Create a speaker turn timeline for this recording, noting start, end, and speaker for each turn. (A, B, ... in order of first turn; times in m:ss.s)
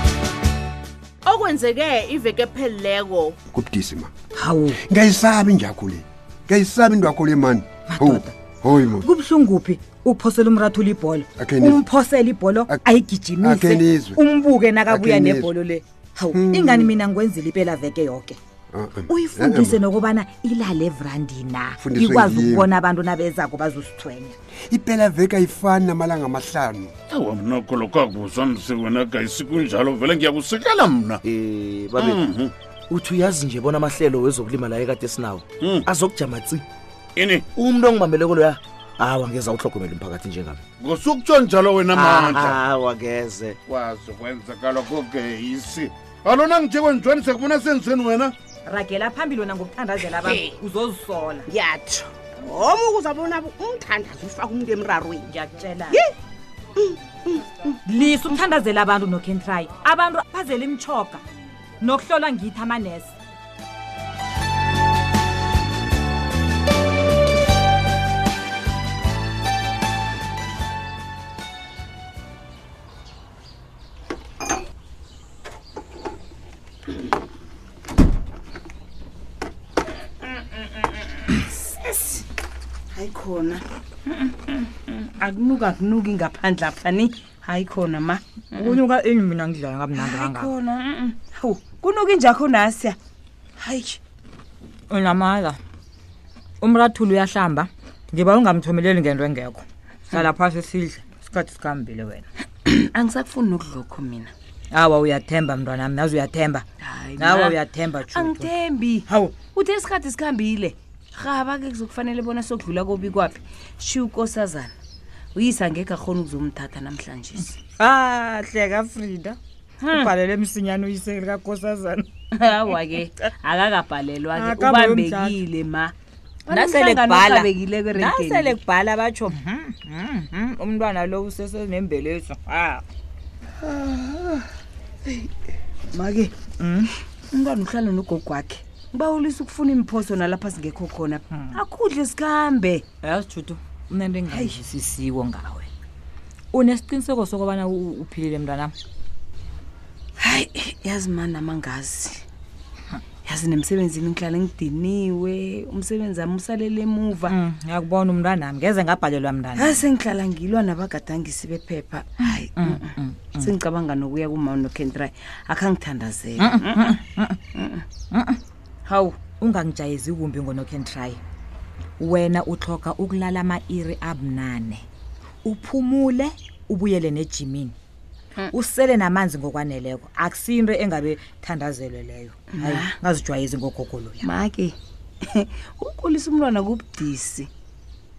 0:01.2-0:03.4 A
0:03.5-0:04.1 B
0:04.4-0:04.8 C
0:04.9-0:09.1 B
0:07.9-0:08.4 C
0:08.9-0:18.4 C
0:11.4-0:11.8 B
0:13.4-0:14.2 B
0:14.9-0:15.5 B
0:16.3-0:16.9 B
0:18.7-0:19.7 B
0:19.1-0:24.4 C
0:21.8-0:22.7 B
0:24.7-0:26.9 B
0:27.1-0:31.2 D
0:31.2-0:32.2 E
0:32.0-0:32.5 D
0:32.9-0:36.6 E
0:35.6-0:35.9 D
0:37.2-0:37.5 D
0:37.6-0:40.6 E
0:40.8-0:42.6 D
0:41.9-0:43.6 E
0:43.7-0:48.4 D
0:48.6-0:51.5 C
0:50.1-0:50.5 F
0:51.5-0:55.3 F
0:55.3-0:56.0 C
0:56.8-0:57.5 F
0:57.9-1:01.2 C
1:01.8-1:03.2 C
1:21.8-1:22.2 G
1:22.9-1:28.8 G
1:28.6-1:30.5 C
1:29.9-1:33.0 G
1:33.6-1:34.0 G
1:34.9-1:35.6 C
1:36.6-1:42.2 C
1:42.7-1:44.3 G
1:44.7-1:46.6 C
1:46.8-1:47.6 G
1:47.2-1:48.5 C
1:48.1-1:54.7 G
1:49.1-1:49.4 C
1:55.4-1:57.6 G
1:57.8-1:59.4 C
1:59.8-2:00.1 G
1:59.9-2:02.1 C
2:02.4-2:05.9 G
2:04.3-2:05.4 C
2:06.5-2:08.6 G
2:06.5-2:12.8 C
2:15.9-2:16.3 G
2:16.6-2:16.9 C
2:17.3-2:22.8 G
2:21.3-2:21.6 C
2:23.0-2:25.7 C
2:24.3-2:24.6 G
2:26.5-2:28.7 C
2:30.2-2:32.2 G
2:33.2-2:37.3 G
2:37.3-2:39.8 C
2:39.6-2:47.0 G
2:42.6-2:43.5 C
2:46.4-2:47.4 C
2:47.6-2:47.8 G
2:48.1-2:48.4 C
2:48.9-2:49.2 G
2:49.4-2:51.2 C
2:52.0-2:54.8 C
2:55.4-2:57.8 C
2:58.5-3:04.3 C
3:02.5-3:03.0 G
3:04.2-3:04.8 G
3:05.4-3:07.5 G